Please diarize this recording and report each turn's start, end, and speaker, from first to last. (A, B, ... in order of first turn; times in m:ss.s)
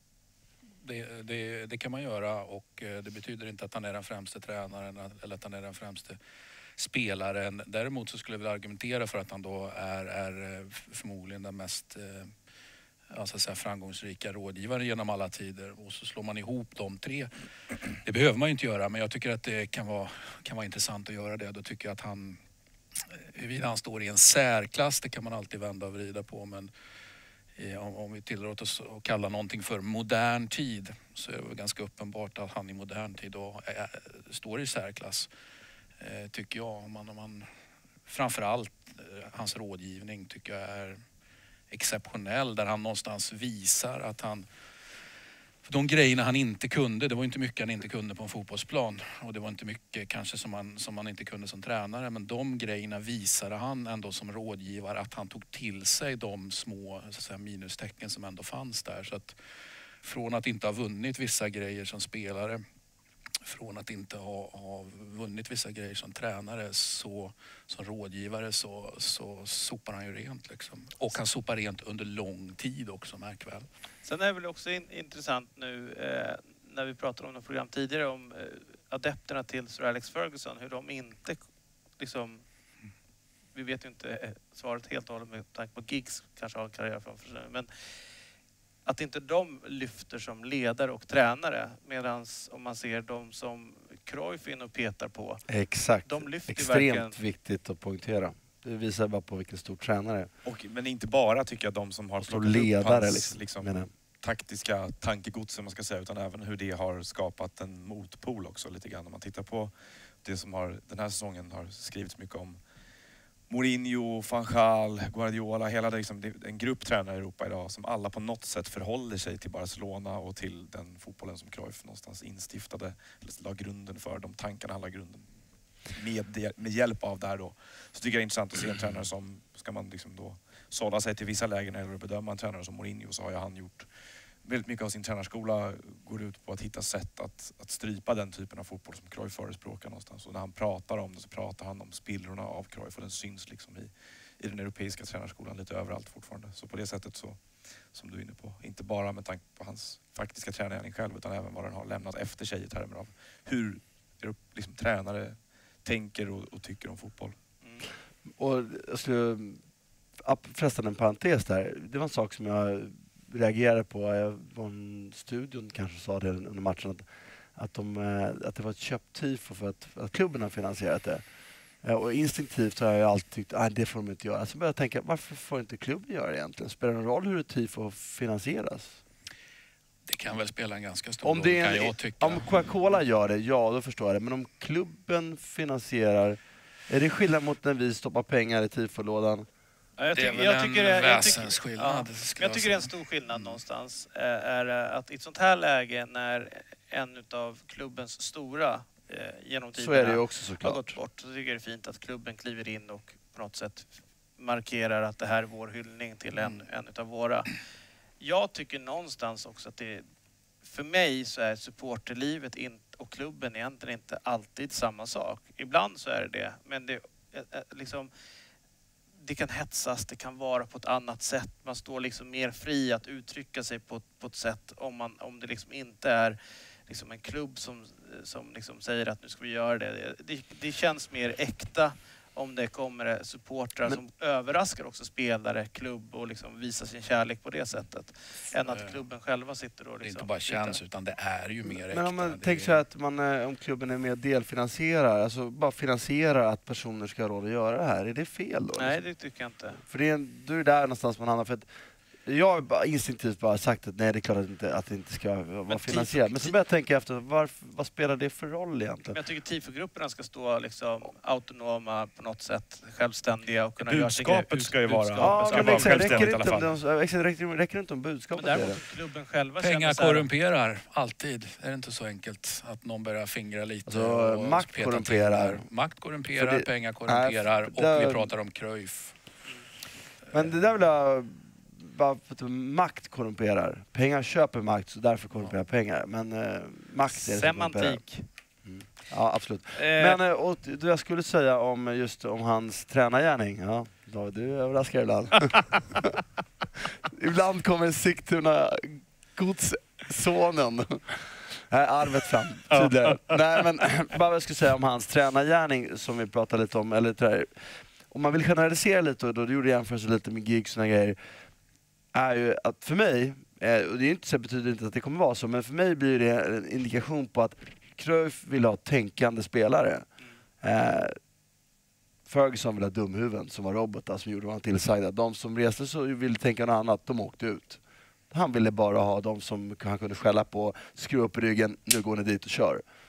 0:00.8-0:06.2 A
0:06.8-0:12.3 A
0:13.1-0:17.3 A
0:18.0-0:22.4 A
0:23.2-0:26.7 A
0:27.6-0:35.3 A
0:36.0-0:37.5 A
0:38.1-0:41.0 A
0:41.7-0:44.5 A
0:45.6-0:59.4 A
1:00.0-1:02.6 A
1:03.4-1:13.7 A
1:14.0-1:21.4 B
1:22.0-1:22.4 B
1:23.5-1:27.7 B
1:28.9-1:35.4 B
1:35.5-1:40.3 C
1:36.1-1:37.2 B
1:40.4-1:49.7 D
1:42.2-1:43.9 C
1:50.2-1:52.6 D
1:53.5-2:05.3 D
2:05.9-2:13.9 D
2:14.4-2:27.4 D
2:27.9-2:37.4 D
2:38.4-2:39.6 C
2:40.2-2:51.2 C
2:51.8-2:59.0 C
3:00.1-3:02.5 A
3:01.2-3:09.5 C
3:10.0-3:27.5 B
3:10.1-3:13.6 A
3:19.8-3:21.0 C
3:28.2-3:30.0 B
3:30.6-3:38.1 B
3:39.2-3:46.4 B
3:46.9-4:00.8 B
3:58.7-3:59.0 A
4:00.0-4:02.8 A
4:01.6-4:09.0 C
4:08.8-4:09.8 B
4:09.9-4:11.7 C
4:12.2-4:19.2 C
4:15.7-4:16.6 B
4:19.1-4:26.3 B
4:23.8-4:26.7 D
4:25.2-4:28.8 C
4:28.3-4:30.3 B
4:29.6-4:39.2 A
4:33.9-4:35.6 C
4:36.4-4:38.3 C
4:40.3-4:48.0 C
4:47.1-4:48.2 B
4:48.6-4:56.2 C
4:49.8-4:50.2 B
4:57.0-5:11.2 C
5:02.7-5:03.4 B
5:12.1-5:20.1 C
5:20.6-5:21.2 C
5:22.3-5:27.8 C
5:28.3-5:32.8 C